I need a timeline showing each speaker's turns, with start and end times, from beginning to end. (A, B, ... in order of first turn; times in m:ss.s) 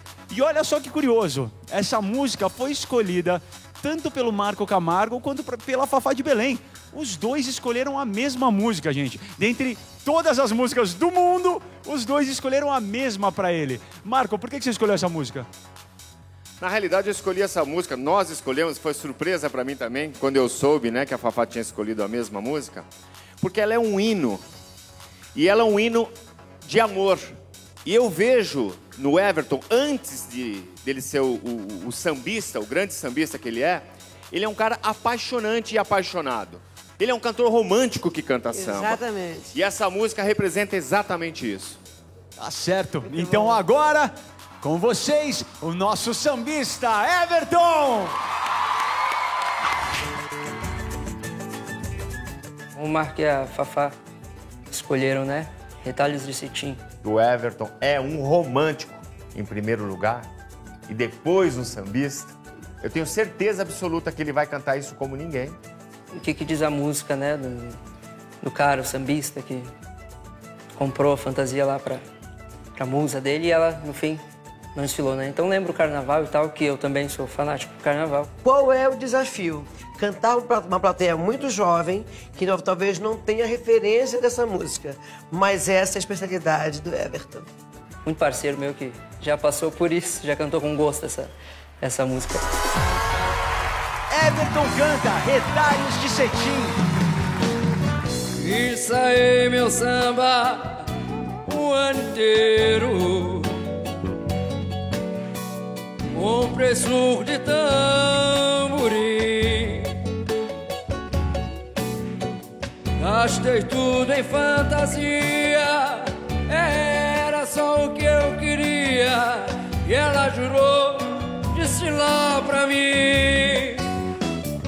0:00.3-0:15.5 A
0:16.6-0:22.8 B
0:23.4-0:24.4 B
0:25.3-0:26.1 B
0:26.6-0:39.0 B
0:38.5-0:39.5 C
0:39.5-0:41.8 B
0:42.4-0:48.1 A
0:43.1-0:43.6 C
0:52.7-0:53.9 D
0:54.7-0:56.8 D
0:57.0-1:00.3 B
1:00.9-1:05.6 B
1:06.1-1:07.8 D
1:08.4-1:09.7 D
1:10.8-1:12.0 D
1:12.8-1:14.2 D
1:14.7-1:18.3 D
1:18.4-1:27.5 C
1:28.0-1:32.4 D
1:34.1-1:36.7 A
1:38.4-1:40.9 E
1:41.5-1:43.5 E
1:46.1-1:50.0 E
1:53.0-2:03.9 E